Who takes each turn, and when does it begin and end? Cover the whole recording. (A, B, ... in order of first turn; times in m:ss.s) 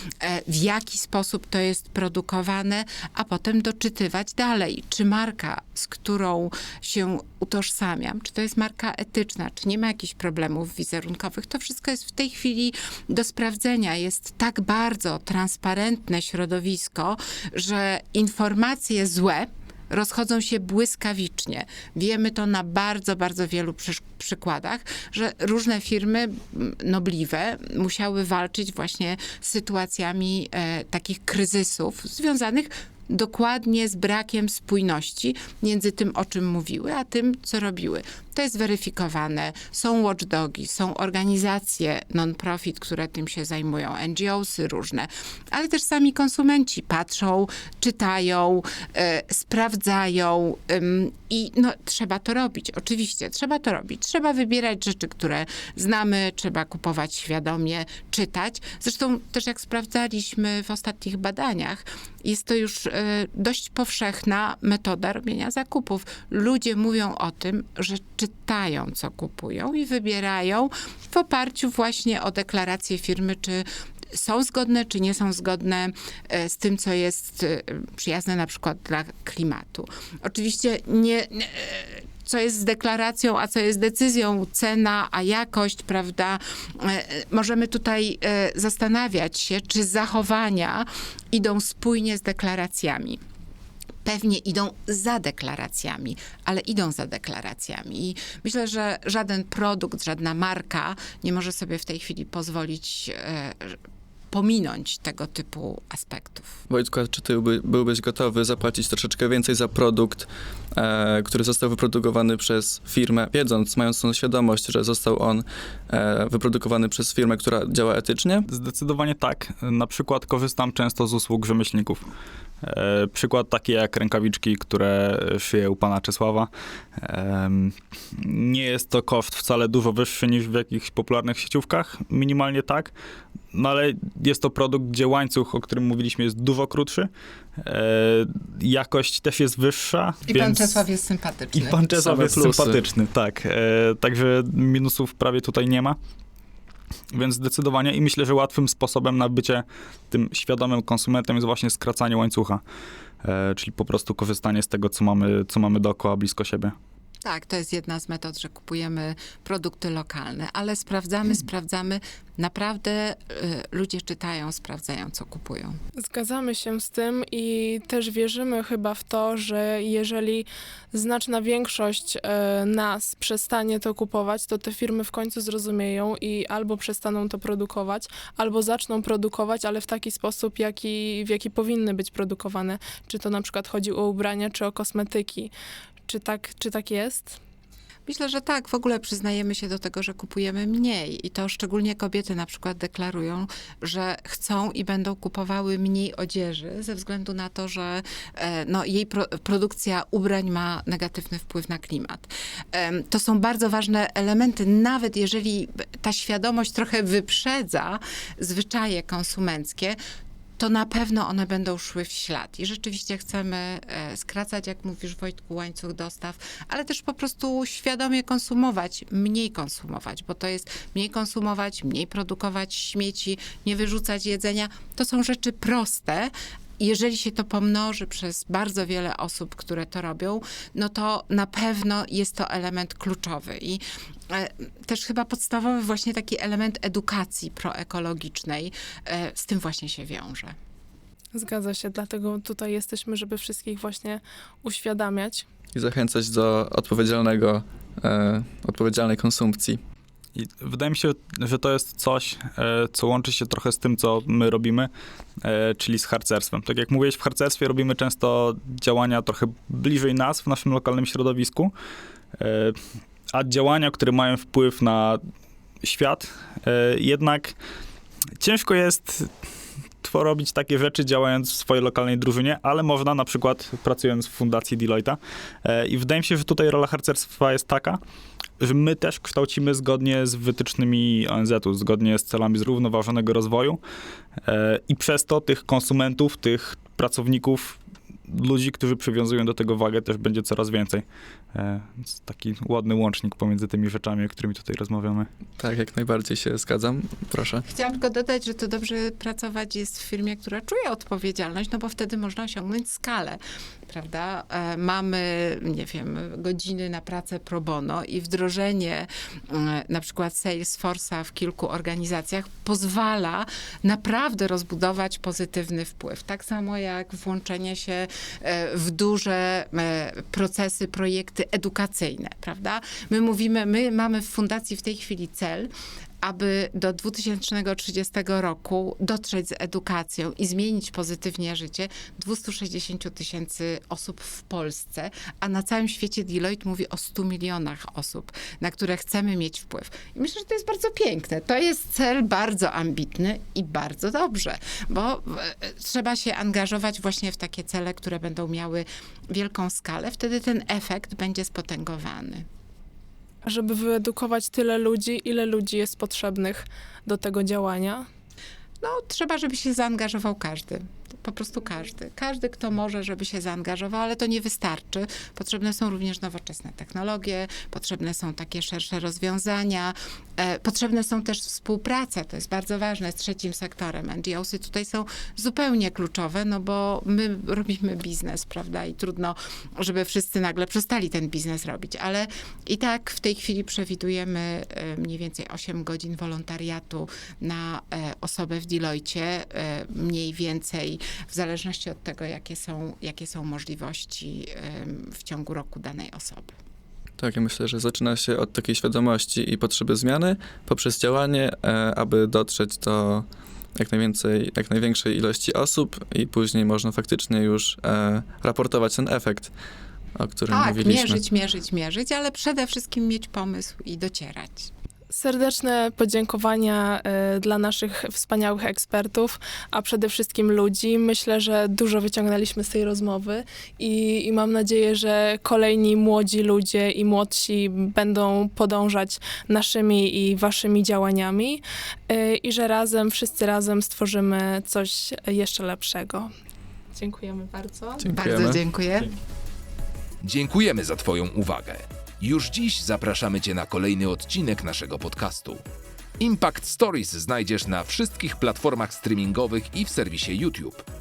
0:00.2-1:33.2 A
1:34.0-1:43.8 A
1:44.3-1:46.6 A
1:46.7-1:58.5 B
1:58.5-2:02.0 C
2:02.6-2:12.9 C
2:13.5-2:20.8 C
2:20.3-2:21.9 A
2:21.5-2:26.0 C
2:22.0-2:22.8 B
2:27.1-2:32.6 C
2:33.2-2:36.7 C
2:37.2-2:45.8 A
2:46.0-3:05.5 D
3:06.0-3:07.4 D
3:08.0-3:30.0 A
3:30.6-4:00.5 A
4:01.3-4:05.5 D
4:05.7-4:09.8 B
4:10.4-4:14.9 C
4:15.4-4:21.7 C
4:22.4-4:22.8 C
4:23.3-4:25.2 C
4:25.8-4:27.5 C
4:28.4-4:29.3 C
4:30.0-4:38.0 C
4:38.6-4:43.8 C
4:44.4-4:55.3 C
4:55.6-4:57.6 B
4:57.7-5:25.7 A
5:26.2-5:52.4 A
5:53.4-5:58.0 D
5:58.8-6:36.5 A
6:37.2-6:49.5 B
6:50.2-6:51.2 B
6:50.5-6:54.7 A
6:55.1-7:16.3 D
7:16.9-7:18.0 D
7:18.0-7:18.6 B
7:18.0-7:19.1 A
7:20.2-7:25.6 E
7:26.2-7:30.8 E